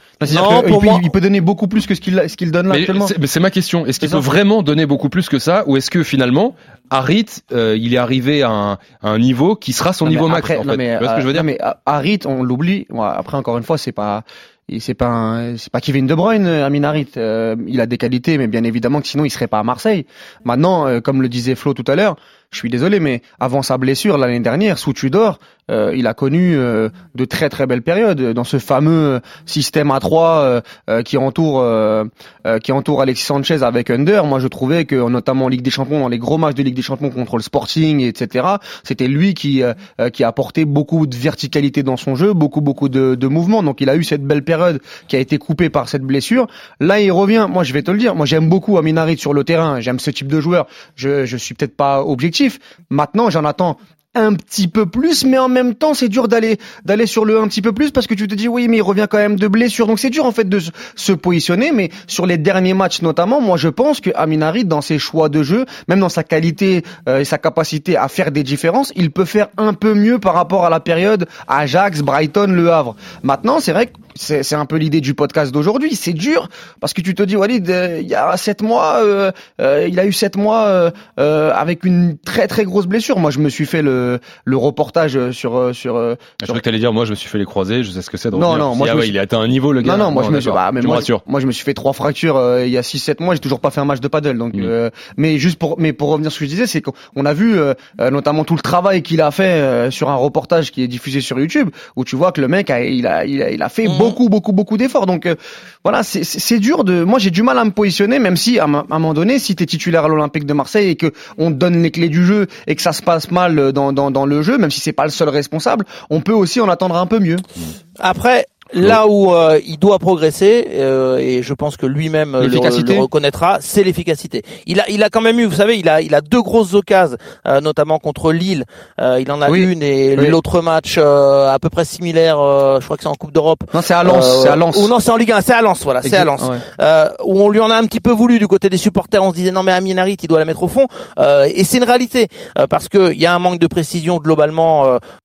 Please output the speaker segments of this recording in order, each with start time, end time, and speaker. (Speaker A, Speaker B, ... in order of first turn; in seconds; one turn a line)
Speaker A: 0.2-3.1
Speaker B: 0.2-1.1
Speaker C: 2.7-11.5
Speaker A: 4.0-4.3
Speaker A: 10.1-86.6
Speaker C: 86.4-91.2
Speaker A: 88.3-89.1
Speaker A: 89.8-117.4
Speaker B: 103.8-104.2
Speaker B: 118.0-145.0
Speaker A: 122.4-123.1
Speaker A: 129.5-130.4
Speaker A: 133.7-134.9
Speaker A: 136.0-136.6